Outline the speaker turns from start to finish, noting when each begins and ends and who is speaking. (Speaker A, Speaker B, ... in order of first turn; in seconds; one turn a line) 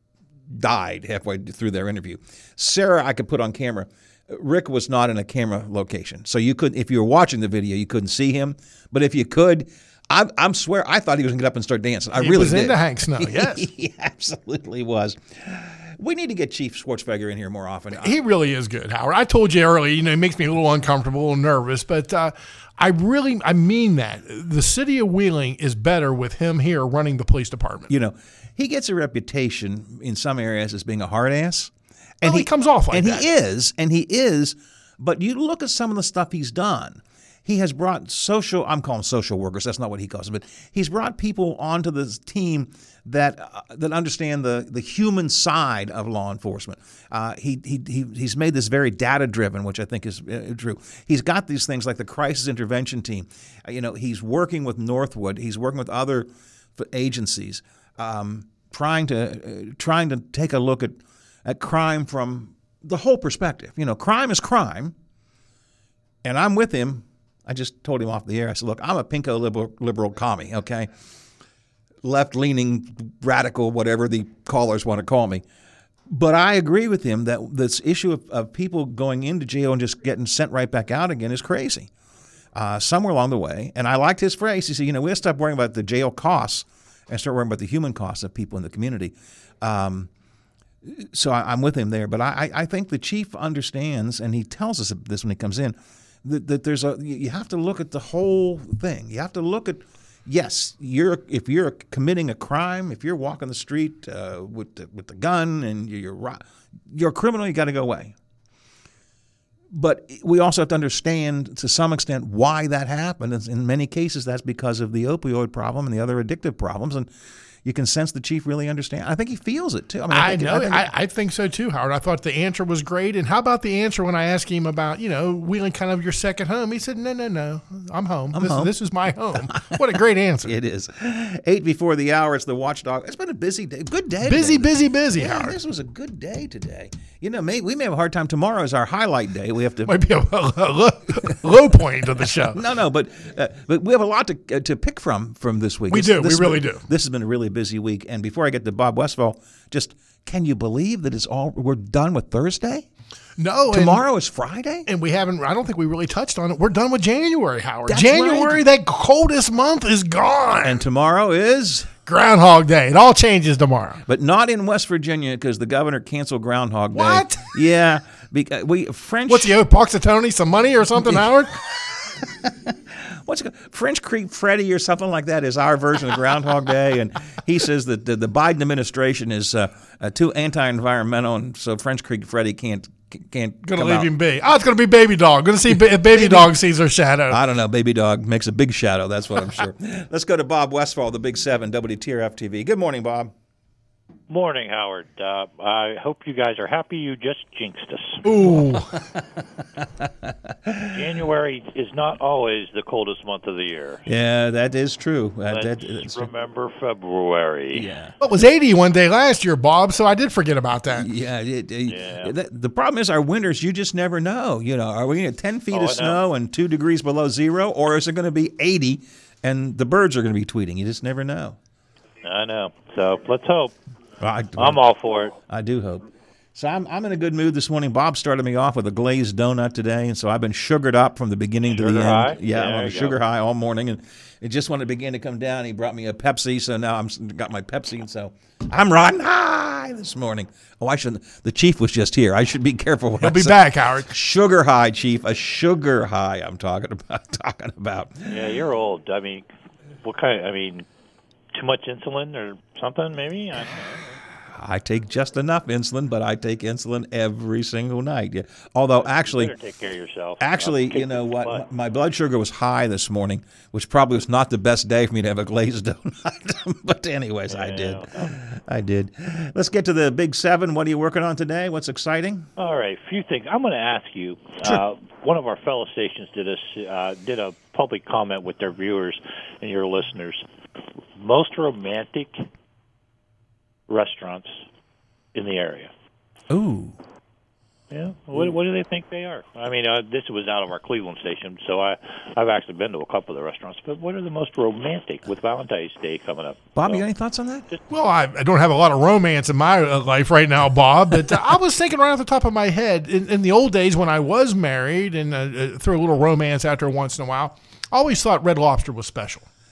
Speaker A: 0.5-18.1
Speaker B: 12.1-13.7
Speaker B: 17.9-27.9
Speaker A: 27.9-65.0
Speaker B: 32.2-33.3
Speaker A: 66.2-70.9
Speaker A: 72.0-75.4
Speaker A: 76.1-81.9
Speaker A: 82.5-90.1
Speaker A: 90.8-108.1
Speaker A: 109.7-117.1
Speaker A: 117.6-120.9
Speaker B: 120.1-130.5
Speaker A: 128.3-128.7
Speaker A: 129.3-140.1
Speaker B: 134.2-135.6
Speaker B: 139.9-142.6
Speaker A: 141.2-141.6
Speaker A: 142.2-152.9
Speaker B: 145.9-146.9
Speaker B: 153.4-154.1
Speaker A: 153.7-154.9
Speaker B: 154.9-160.8
Speaker A: 157.9-158.6
Speaker A: 160.6-161.9
Speaker B: 162.1-164.0
Speaker A: 164.1-169.6
Speaker B: 166.9-167.5
Speaker B: 169.3-171.6
Speaker A: 171.0-184.1
Speaker B: 183.6-187.4
Speaker A: 185.7-186.6
Speaker A: 187.3-193.3
Speaker C: 194.3-198.2
Speaker B: 198.2-198.9
Speaker A: 198.4-201.2
Speaker C: 200.9-204.0
Speaker A: 204.1-206.3
Speaker C: 205.5-207.9
Speaker A: 207.7-208.1
Speaker B: 208.2-211.1
Speaker A: 210.9-221.6
Speaker C: 211.9-212.3
Speaker C: 215.7-216.2
Speaker C: 222.2-223.7
Speaker A: 224.2-224.9
Speaker C: 224.6-225.4
Speaker A: 225.5-248.6
Speaker C: 231.7-233.2
Speaker B: 243.2-244.1
Speaker C: 248.3-249.4
Speaker C: 250.0-250.9
Speaker C: 251.6-254.2
Speaker A: 254.5-259.6
Speaker C: 258.8-261.6
Speaker A: 260.4-272.5
Speaker C: 267.5-268.3
Speaker C: 272.6-280.4
Speaker C: 281.1-282.4
Speaker C: 283.9-284.6
Speaker C: 285.3-285.9
Speaker A: 286.5-287.0
Speaker C: 287.9-297.0
Speaker A: 296.7-297.7
Speaker B: 297.9-309.4